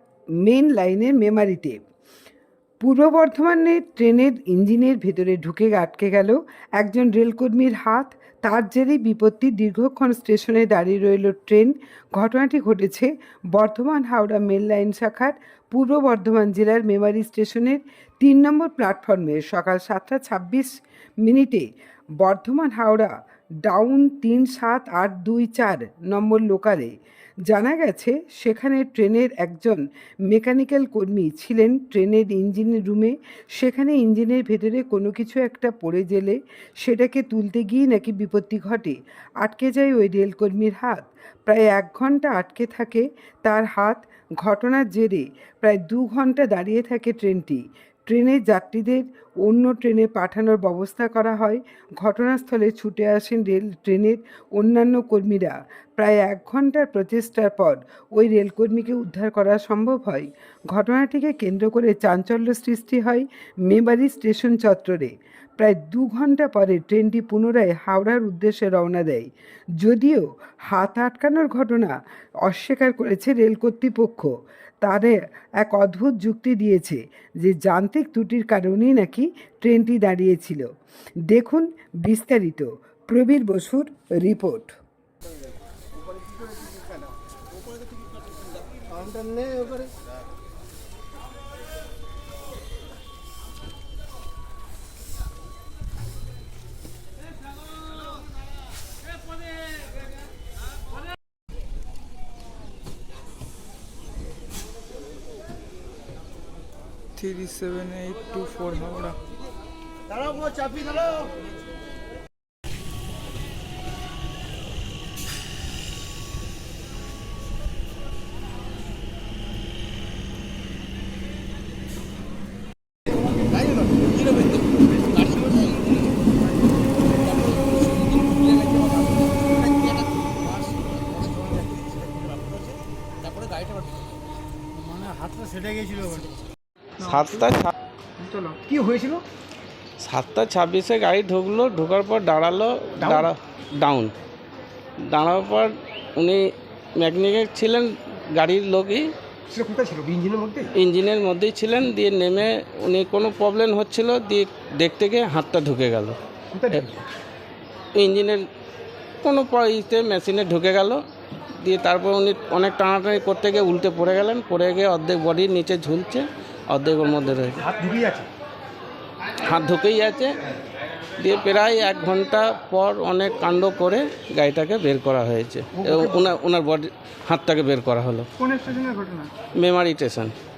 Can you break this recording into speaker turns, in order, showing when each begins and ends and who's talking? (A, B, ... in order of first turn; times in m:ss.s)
0:00.4-0:01.8 A
0:02.8-0:20.7 A
0:21.2-0:21.7 A
0:22.2-0:23.1 A
0:23.7-0:26.9 A
0:27.5-1:09.3 A
1:09.8-1:12.0 A
1:12.5-1:14.3 A
1:14.8-1:20.7 A
1:21.3-1:24.8 A
1:47.2-1:49.2 B
2:07.4-2:10.3 C
2:11.4-2:12.5 C
2:17.0-2:17.7 D
2:18.6-2:19.2 C
2:20.0-2:24.1 D
2:23.0-2:23.3 C
2:25.1-2:26.4 D
2:27.0-2:29.1 D
2:29.5-2:30.7 C
2:30.8-2:36.2 D
2:36.5-2:37.0 C
2:38.0-2:38.4 D
2:39.2-2:41.0 D
2:41.6-2:47.6 D
2:47.6-2:48.3 C
2:49.4-2:50.3 D
2:51.2-2:58.3 D
2:55.8-2:56.3 C
2:58.4-2:59.1 C
2:59.6-3:00.3 D